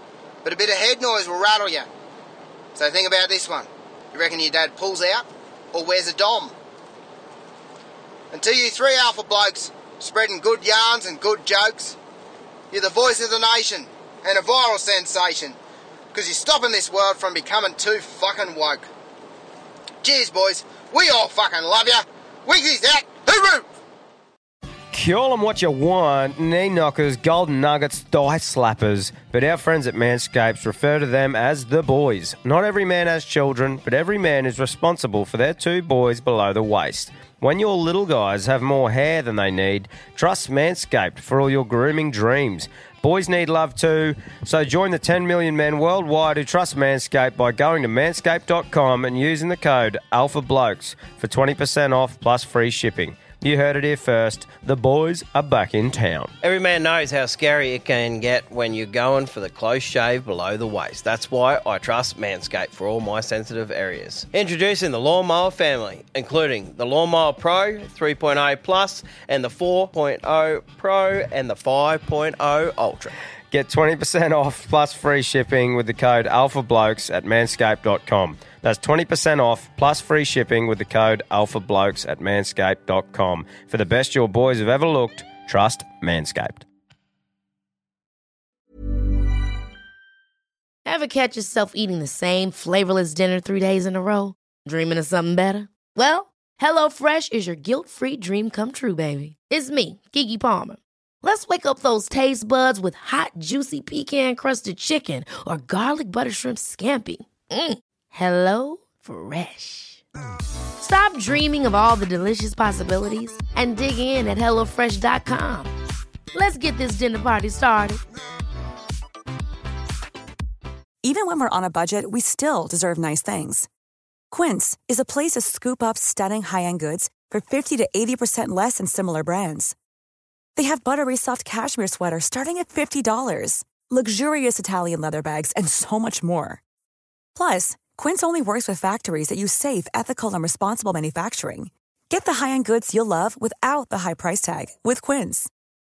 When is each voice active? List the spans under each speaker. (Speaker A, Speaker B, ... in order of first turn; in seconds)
Speaker A: 0.4-1.9, 2.8-6.5, 8.3-12.0, 12.7-15.6, 16.1-18.9, 20.0-23.7
Speaker B: 24.9-56.3, 73.5-86.7
Speaker C: 56.4-73.1
Speaker D: 90.9-110.0, 110.8-115.7, 116.3-118.0
Speaker E: 121.0-123.7, 124.3-129.8, 130.6-136.6, 137.4-145.5